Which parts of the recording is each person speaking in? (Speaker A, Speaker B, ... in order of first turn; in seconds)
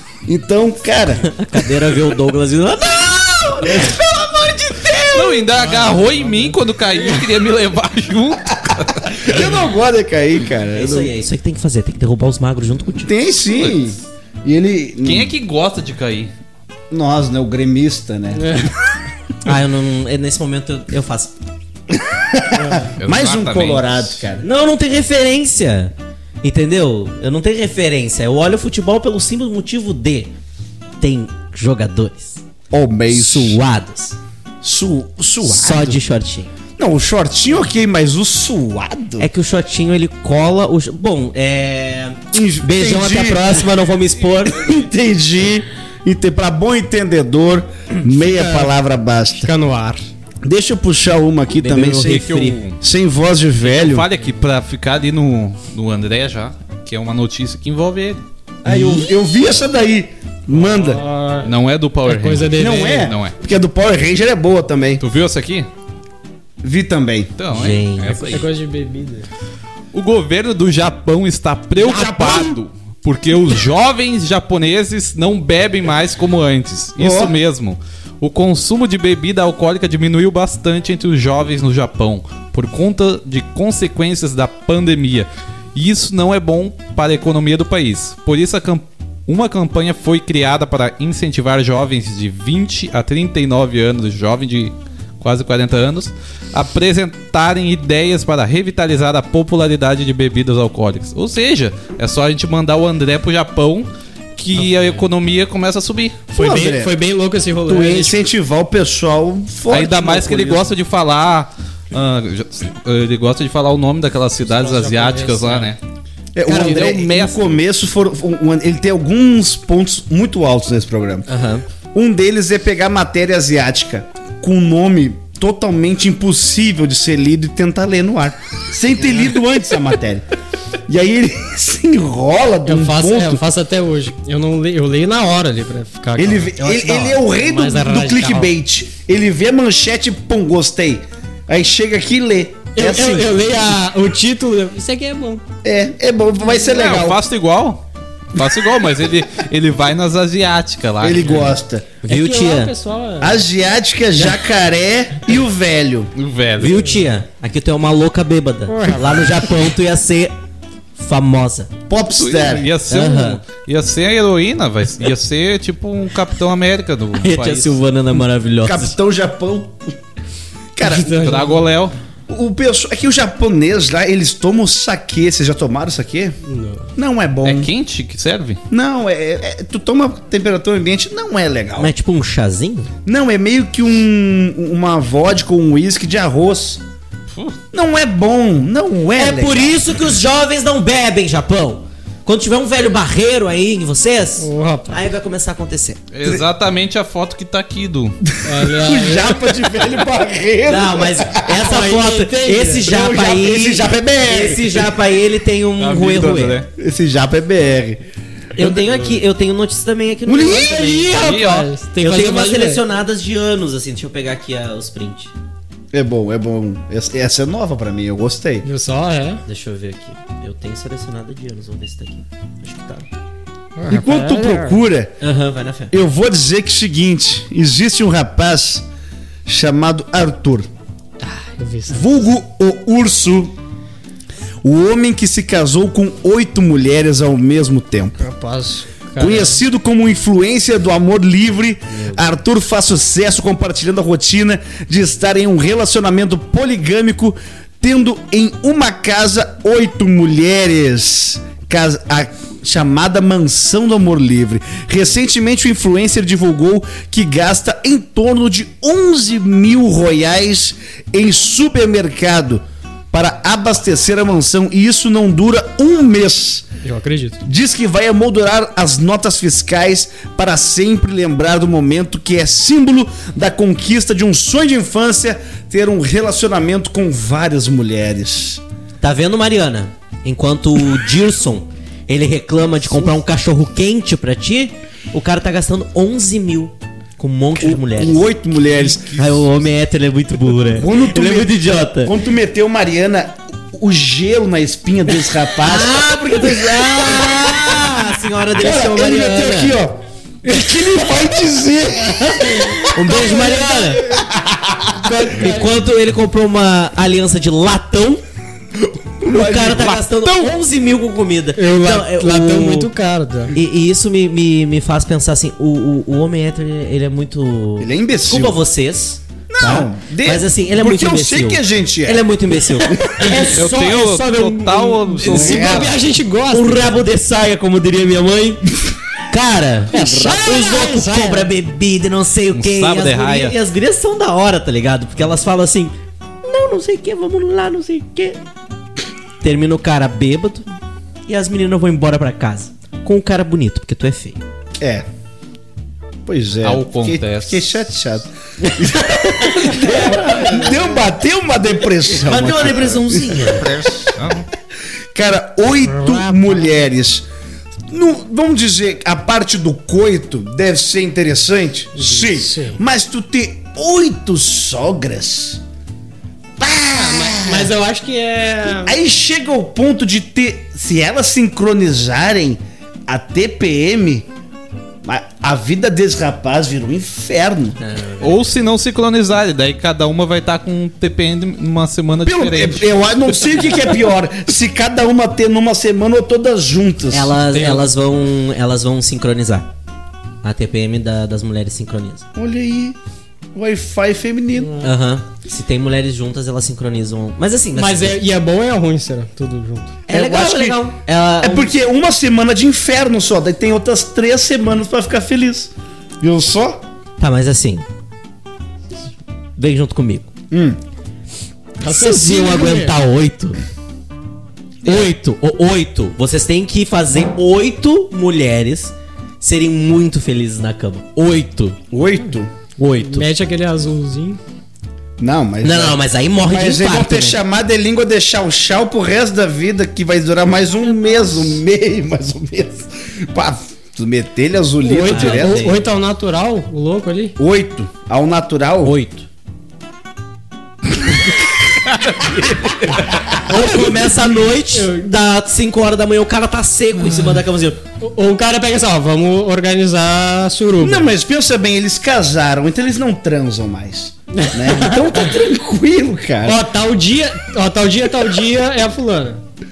Speaker A: 0.3-1.3, 9.1-11.1, 13.0-15.3, 16.9-18.7, 21.9-24.4, 32.7-33.6, 34.6-36.0, 36.8-39.3, 42.3-43.6, 44.5-49.5, 50.4-54.1, 58.6-61.0, 62.5-65.0, 66.6-67.3, 71.7-72.6, 77.0-77.4, 106.3-107.0, 107.6-110.7, 116.3-121.3, 121.9-130.2, 130.9-133.4, 136.2-143.3, 145.6-147.2, 151.0-151.9, 153.2-156.1, 161.9-162.7, 168.6-169.9, 170.8-171.2, 172.3-176.4, 176.9-177.7, 178.7-181.9, 183.1-186.8, 187.7-189.8, 198.2-201.6, 202.8-204.9, 206.7-208.0, 208.6-209.1, 210.3-210.7, 215.9-218.7, 223.9-225.2, 225.9-228.9, 229.4-230.7, 231.9-233.6, 234.6-238.2, 239.2-266.6, 267.4-278.6, 287.6-289.2, 290.7-297.9, 298.6-305.1, 309.2-310.5, 317.8-318.6, 319.5-322.3, 322.8-323.5, 325.2-326.0, 344.8-345.1, 346.3-354.1, 355.1-357.3, 357.9-365.6, 366.6-367.7, 368.8-374.3, 375.0-377.8, 382.2-387.4, 392.4-392.9, 393.6-394.8, 400.1-406.8, 410.5-410.8, 421.9-422.5, 425.2-435.7, 437.4-438.9, 443.2-443.8, 450.8-456.6
Speaker B: 1.3-5.4, 10.7-13.1, 19.4-21.4, 24.4-30.3, 31.0-32.4, 33.1-34.2, 35.4-36.5, 39.2-44.7, 51.5-52.6, 58.7-59.0, 67.5-68.4, 121.3-121.6, 152.1-152.7, 156.6-160.3, 161.0-161.7, 162.9-163.4, 167.1-168.9, 181.8-182.9, 189.2-196.1, 200.6-206.6, 208.6-211.3, 212.0-215.3, 219.4-223.1, 225.2-225.9, 241.9-242.2, 279.0-288.3, 289.1-292.1, 295.6-299.8, 302.8-304.1, 305.2-308.2, 309.2-312.9, 313.5-325.4, 326.5-328.6, 329.3-338.4, 339.4-340.7, 341.3-344.4, 349.4-350.9, 352.1-353.8, 377.8-378.5, 387.1-389.7, 390.4-392.2, 394.8-398.2, 400.1-401.7, 407.2-407.8, 409.6-410.3, 411.8-413.6, 414.8-421.8, 422.8-423.2, 425.6-427.4, 435.0-435.8, 438.8-439.3, 443.4-447.8
Speaker C: 5.1-9.4, 15.0-16.3, 23.0-24.2, 52.0-52.8, 53.6-58.2, 61.4-63.4, 65.0-65.7, 67.4-68.5, 69.9-106.2, 109.7-115.8, 116.5-117.4, 146.6-147.8, 148.3-151.6, 156.2-156.9, 162.2-167.8, 171.1-171.9, 177.4-178.6, 187.3-187.6, 196.1-198.2, 205.8-206.7, 211.1-211.7, 288.8-289.4, 323.5-325.9, 332.5-333.6, 346.6-347.6, 354.1-354.4, 378.2-382.9, 441.9-443.2
Speaker D: 5.5-7.2, 18.4-18.7, 22.6-22.9, 48.1-48.7, 49.4-50.0, 60.5-61.5, 62.1-63.1, 68.2-69.3, 104.6-105.0, 106.3-108.2, 114.4-115.7, 116.5-116.9, 132.7-138.5, 142.8-145.4, 152.1-153.4, 158.7-159.4, 170.8-171.6, 176.4-176.9, 194.4-194.9, 198.4-199.5, 201.5-202.9, 210.4-212.8, 218.6-219.4, 223.8-224.8, 231.2-232.1, 238.2-239.6, 266.8-267.4, 302.4-304.0, 305.0-305.7, 311.6-313.6, 325.1-327.0, 329.9-331.5, 355.8-356.7, 361.9-362.8, 366.9-369.0, 387.5-387.8, 394.6-394.9, 397.7-400.0, 411.8-412.9, 423.0-424.4, 434.8-437.4, 444.7-445.1, 448.0-451.1, 454.3-455.1, 456.4-459.4